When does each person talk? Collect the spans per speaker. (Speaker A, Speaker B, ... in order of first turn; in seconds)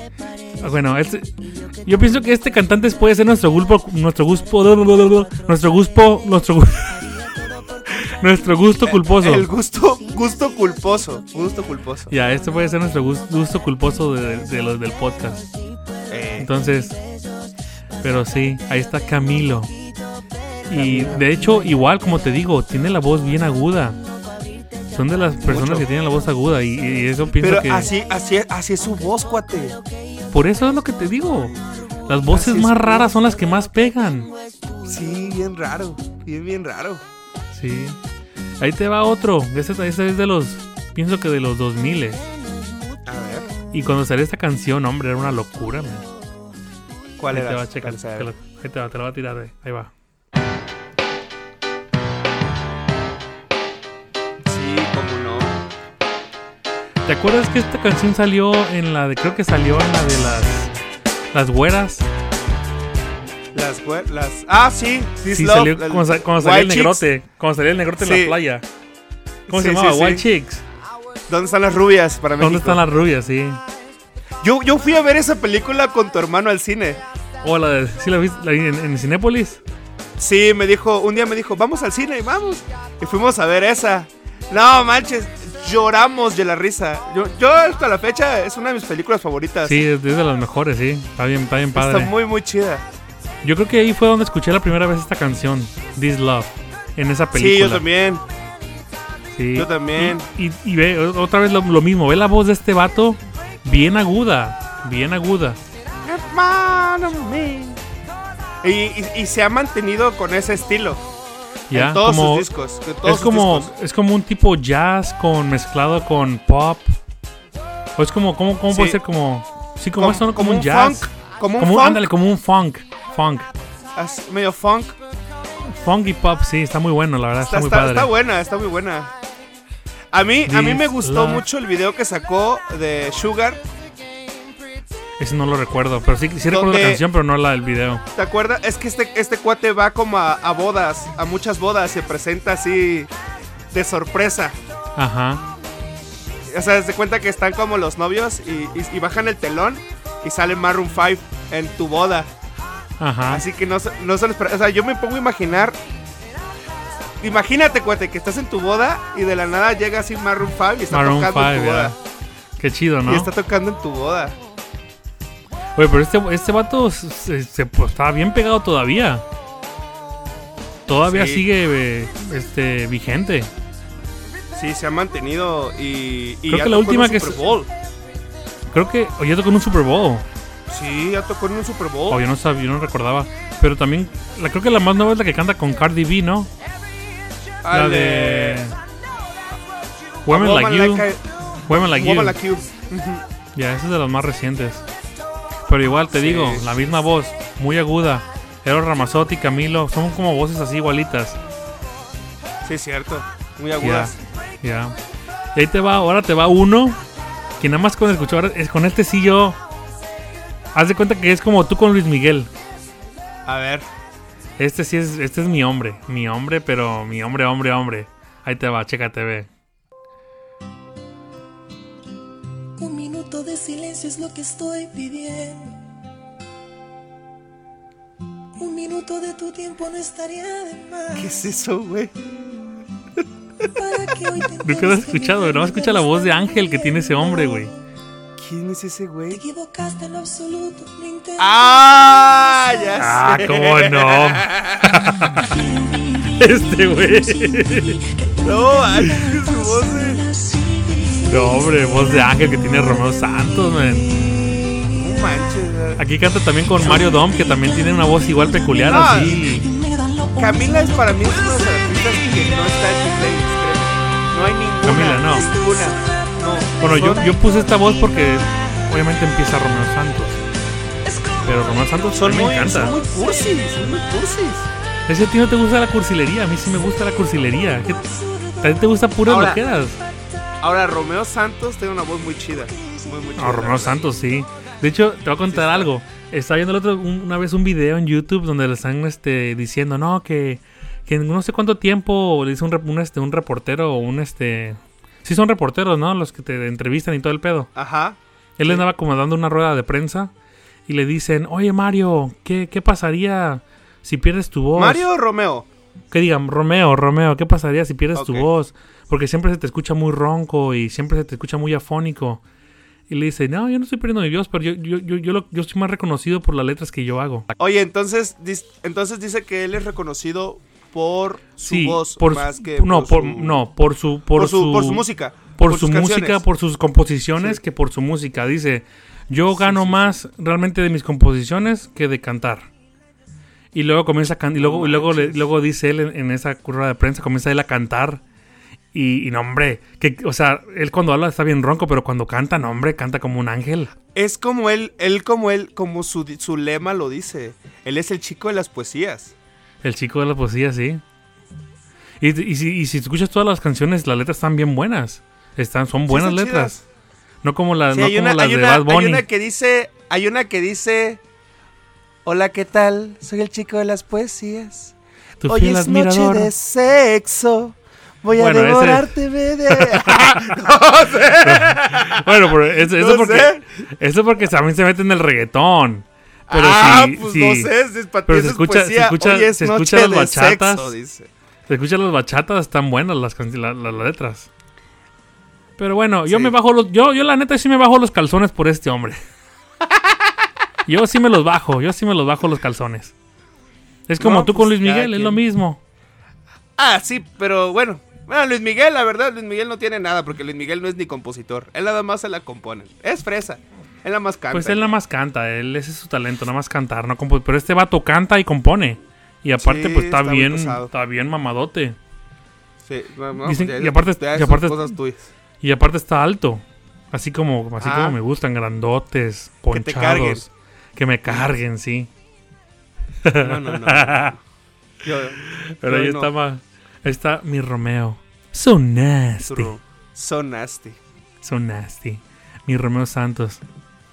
Speaker A: 0.6-1.3, 1.9-7.1, 7.9-9.5, 12.1-15.5, 16.4-17.0, 18.0-19.7, 20.7-24.0, 24.9-27.9, 30.3-31.6, 32.1-34.3, 37.5-38.0, 38.6-42.2, 43.7-46.1, 47.3-49.9, 57.1-60.7, 61.3-62.1, 65.3-68.7, 69.5-70.6, 72.4-73.6, 77.4-79.6, 89.6-92.1, 93.4-97.8, 99.3-105.6, 111.7-112.5, 113.0-116.9, 118.0-123.5, 125.7-128.1, 130.5-131.4, 135.2-138.0, 145.0-145.4, 153.0-153.4, 160.9-162.0, 162.6-163.3, 165.8-169.2, 170.9-173.5, 176.5-177.5, 178.7-180.2, 182.1-186.5, 187.7-188.8, 190.3-191.1, 191.7-192.4, 193.6-194.8, 195.7-201.4, 203.8-204.9, 205.6-207.0, 207.6-209.6, 210.7-212.5, 214.6-219.5, 234.6-237.7, 243.0-245.5, 246.4-248.0, 251.3-254.1, 256.0-259.7, 264.8-265.5, 266.8-270.4, 271.4-273.0, 275.1-278.0, 278.6-280.0, 283.4-297.7, 298.6-300.3, 300.9-305.1, 306.1-312.4, 313.1-317.5, 321.6-325.1, 325.6-332.7, 333.7-338.2, 338.9-343.9, 349.8-351.0, 352.2-356.8, 357.4-359.2, 365.4-366.5, 368.4-369.2, 369.7-370.6, 371.4-377.7, 378.3-380.9, 381.7-384.5, 385.8-389.2, 390.9-393.1, 394.1-395.8, 404.5-412.0, 413.4-414.9, 415.6-422.1, 423.2-424.4, 425.4-429.7, 431.4-433.6
Speaker B: 8.8-12.1, 16.1-16.5, 20.7-21.4, 25.5-25.9, 27.4-29.8, 32.3-33.1, 34.9-37.0, 43.1-43.5, 47.2-48.3, 54.5-55.6, 63.5-67.1, 68.0-68.4, 69.5-70.3, 71.3-72.8, 74.4-77.0, 80.2-89.8, 91.7-92.8, 97.3-98.2, 99.5-100.3, 106.0-107.8, 108.6-111.0, 111.7-113.7, 118.7-119.0, 120.0-122.1, 124.0-125.0, 127.4-129.1, 130.1-133.6, 136.5-137.0, 138.2-143.1, 143.7-144.6, 146.5-152.3, 153.3-155.8, 157.2-161.9, 163.1-164.4, 171.1-171.5, 174.5-177.7, 180.7-182.2, 187.6-188.7, 190.3-193.2, 196.1-196.7, 202.6-204.2, 213.5-213.9, 231.2-232.1, 238.4-239.4, 241.4-245.0, 248.4-250.2, 254.9-256.0, 256.8-257.1, 258.9-259.4, 260.4-267.3, 272.1-274.7, 279.3-279.6, 280.6-284.1, 285.5-285.9, 297.8-298.9, 304.8-305.7, 308.1-308.5, 317.6-323.6, 324.4-326.4, 329.5-330.2, 334.6-335.5, 344.1-349.3, 356.1-356.8, 357.9-361.2, 362.2-364.9, 365.5-373.6, 376.5-381.3, 386.3-386.6, 389.9-390.1, 394.2-395.4, 396.8-404.9, 409.6-410.9, 412.8-415.3, 417.8-418.2, 419.7-420.5, 421.3-421.5, 423.4-424.4, 425.0-426.3, 429.4-431.0
Speaker C: 222.8-225.8, 228.6-231.4, 233.7-237.7, 239.3-242.9, 245.3-251.8, 258.6-262.1, 265.3-266.3, 267.1-267.8, 273.1-273.5, 277.9-279.0, 282.8-283.1